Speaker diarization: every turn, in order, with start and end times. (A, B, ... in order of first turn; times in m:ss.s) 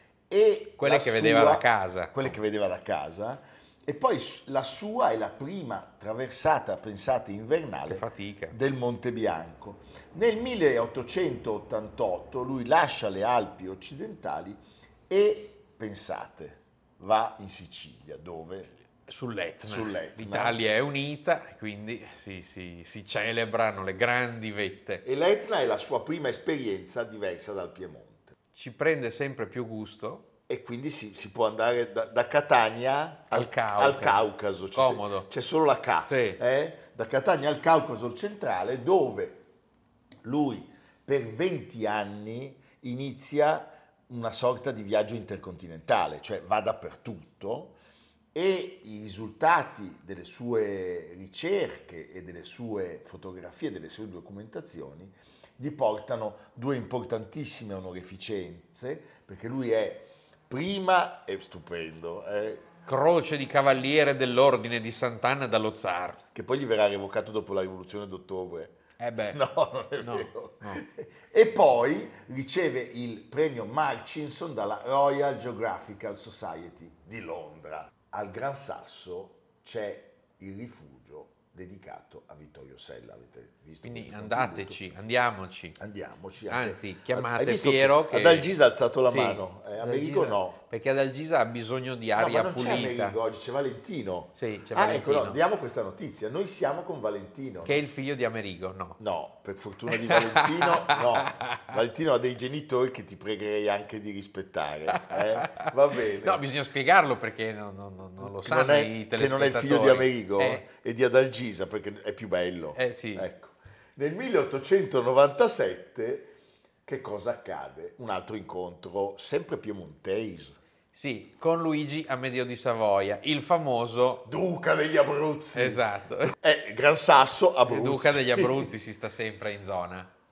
0:00.3-0:18.7 A
0:00.8-0:02.4 B
0:07.9-0:08.6 B
0:19.1-0:25.0 B
0:19.6-0:20.6 A
0:25.0-0:28.3 A
0:28.6-0:30.3 B
0:30.5-0:39.4 A
0:33.3-0:35.3 B
0:36.1-0:36.4 B
0:40.2-0:47.8 A
0:48.3-1:02.6 A
1:02.9-1:06.2 B
1:06.3-1:24.8 A
1:09.0-1:09.4 B
1:10.0-1:10.8 B
1:23.8-1:25.8 B
1:25.8-1:30.6 A
1:26.5-1:33.2 B
1:32.2-1:37.8 A
1:34.4-1:35.4 B
1:37.6-1:39.0 B
1:39.0-1:46.4 A
1:39.9-1:41.8 B
1:44.9-1:50.6 B
1:48.2-1:56.3 A
1:52.8-1:53.3 B
1:56.8-2:00.6 A
2:00.9-2:04.3 B
2:04.3-2:08.7 A
2:05.5-2:06.4 B
2:07.7-2:10.1 B